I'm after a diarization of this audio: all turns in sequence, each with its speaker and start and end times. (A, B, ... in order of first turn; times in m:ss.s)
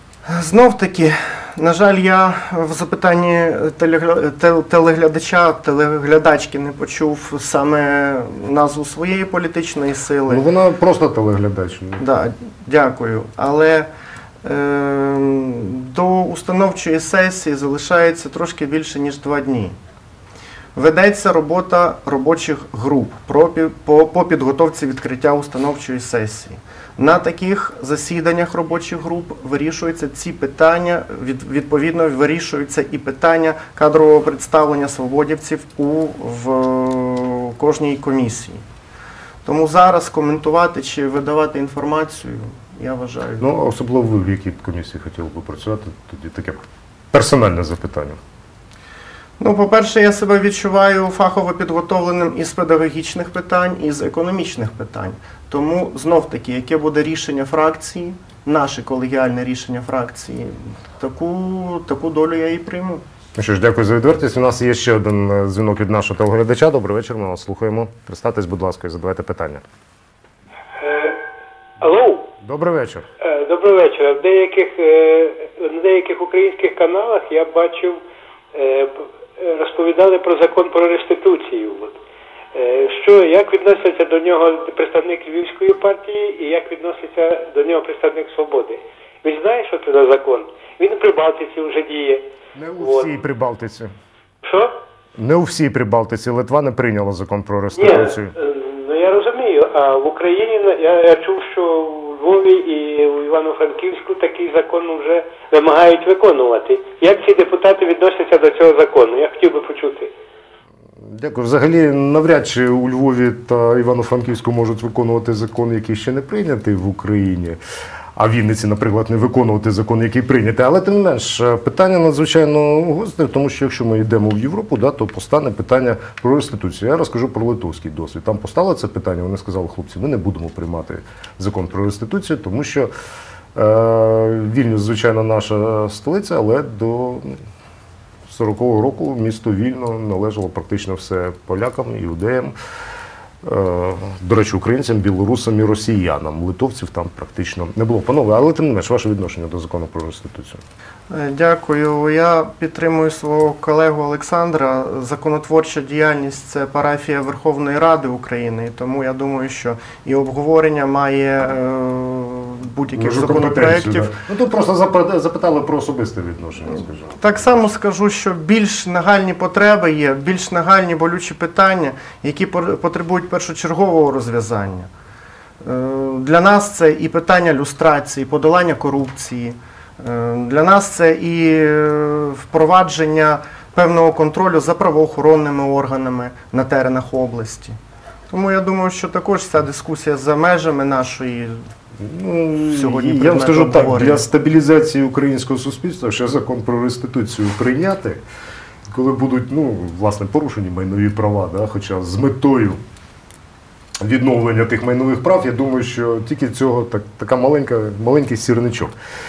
0:00.3-0:10.4 A
0:10.3-0:12.0 B
0:12.0-0:13.9 A
0:14.4-0:19.8 A
0:20.8-0:38.6 A
0:39.4-0:43.5 A
0:43.4-0:48.2 B
0:49.4-1:03.0 A
1:03.4-1:09.6 B
1:10.8-1:11.2 C
1:11.8-1:12.3 C
1:12.4-1:13.1 B
1:13.2-1:18.0 C
1:18.5-1:22.0 C
1:22.5-1:32.2 C
1:32.6-1:33.9 B
1:32.8-1:33.1 C
1:34.4-1:34.7 C
1:35.2-1:38.4 B
1:37.8-1:50.1 C
1:51.0-1:57.6 B
1:58.2-2:12.9 B
2:13.6-2:17.4 B
2:18.3-2:22.5 B
2:23.4-2:30.6 B
2:31.1-2:44.1 A
2:43.0-2:47.7 B
2:47.1-2:54.9 A
2:55.6-3:07.8 A
3:08.3-3:11.6 A
3:12.0-3:18.2 B
3:12.7-3:14.2 A
3:18.9-3:22.8 B
3:24.0-3:28.9 B